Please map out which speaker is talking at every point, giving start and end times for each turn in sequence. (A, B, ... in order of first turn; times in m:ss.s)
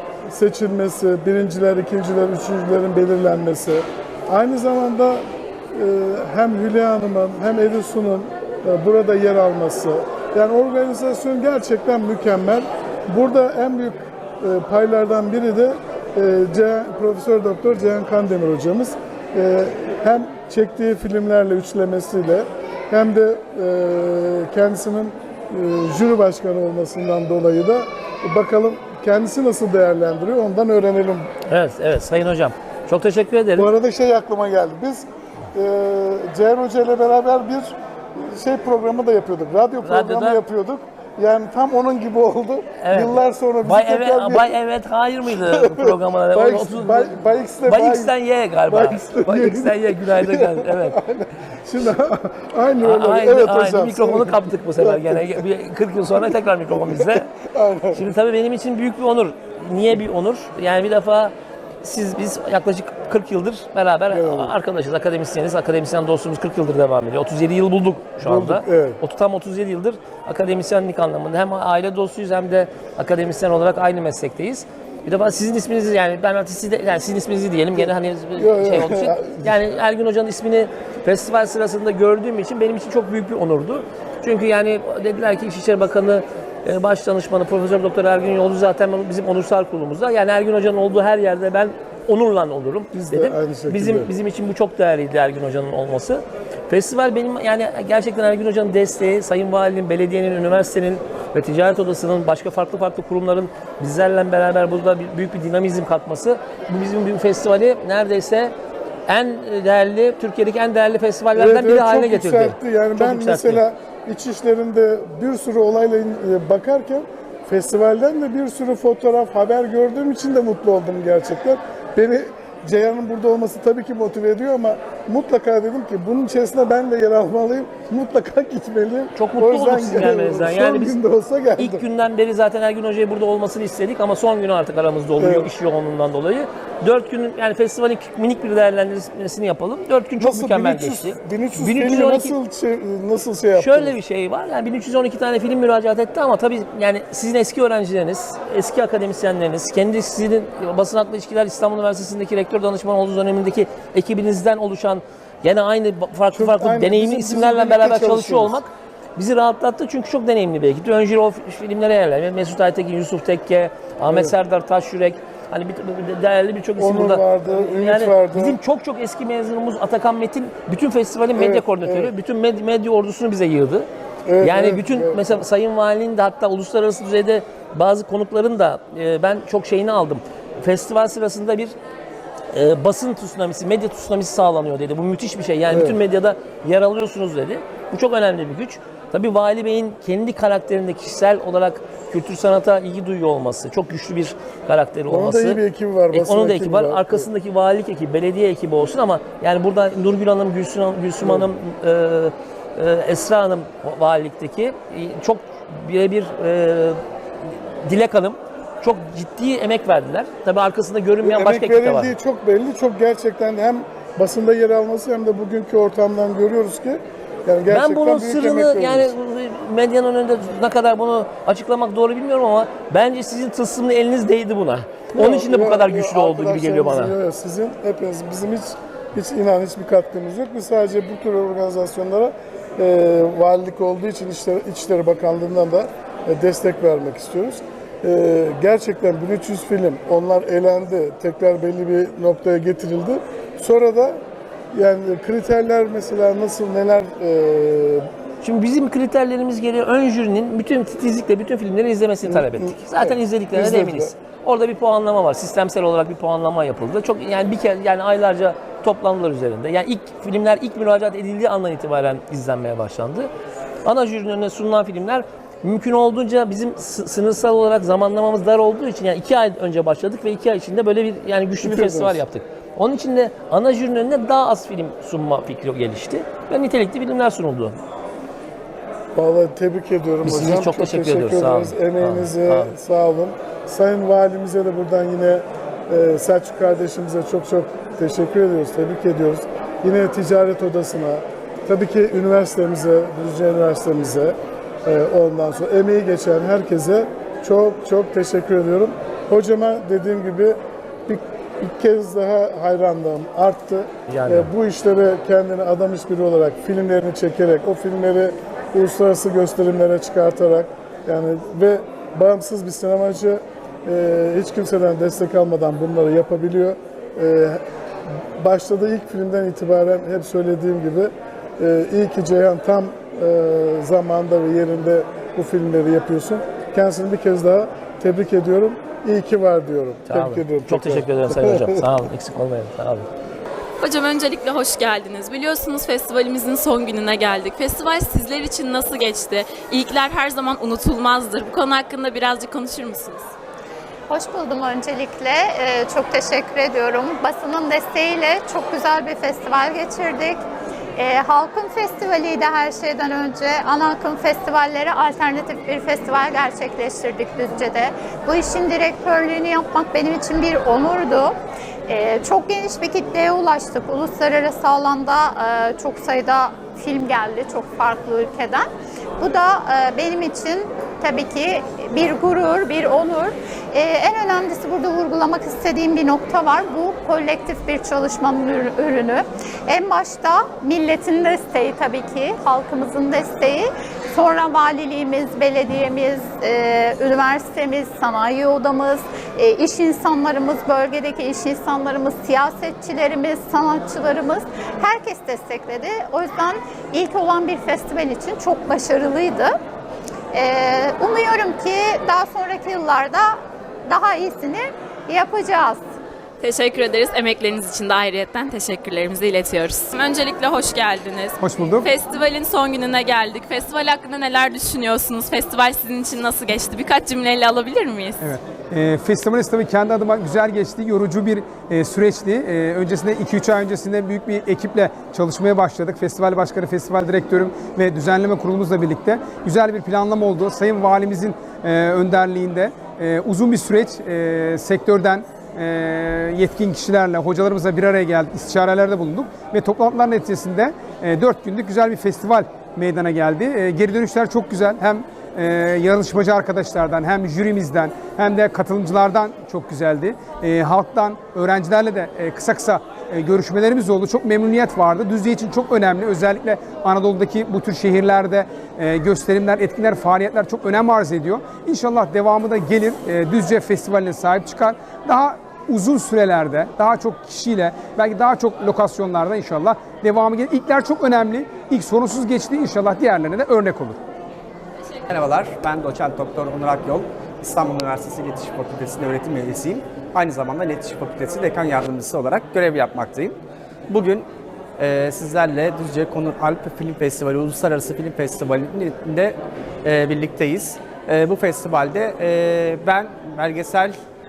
0:00.3-0:31.3 A
0:31.5-0:33.7 B
0:33.6-0:44.6 A
0:39.8-0:40.4 B
0:42.8-0:47.1 B
0:45.3-0:48.1 A
0:47.6-0:51.0 B
0:48.6-0:55.4 A
0:52.8-0:57.3 B
0:56.9-0:58.1 A
0:57.9-1:48.5 B
1:04.1-1:04.6 A
1:08.2-1:09.0 A
1:17.8-1:19.5 A
1:32.9-1:34.1 A
1:49.1-1:53.6 B
1:51.3-2:11.8 A
2:09.1-2:11.0 B
2:11.6-2:22.3 B
2:15.2-2:15.5 A
2:20.2-2:24.0 A
2:23.5-2:53.9 B
2:36.3-2:38.6 A
2:44.1-2:44.3 A
2:46.8-2:48.6 A
2:51.3-2:52.1 A
2:54.2-2:55.4 A
2:54.4-3:01.7 B
3:02.5-3:15.6 B
3:05.7-3:06.0 A
3:15.1-3:17.3 A
3:16.1-3:27.0 B
3:21.2-3:21.5 A
3:27.8-3:32.1 B
3:31.2-3:39.1 A
3:37.7-3:47.1 B
3:45.1-4:04.2 A
4:04.7-4:08.0 A
4:08.4-4:23.3 B
4:12.2-4:14.1 A
4:23.8-4:37.8 B
4:31.6-4:32.2 A
4:39.1-5:17.6 A
4:40.2-4:42.7 B
5:04.1-5:04.5 B
5:18.4-5:31.8 A
5:30.1-5:33.1 B
5:33.8-5:43.2 C
5:44.1-5:50.4 D
5:51.0-6:01.4 D
6:01.9-6:08.7 D
6:09.2-6:39.5 D
6:40.3-6:45.8 D
6:46.4-6:58.2 C
6:51.4-6:51.9 E
6:58.2-7:54.0 E
7:55.1-8:03.3 F
8:03.9-8:04.2 F
8:04.8-8:13.9 F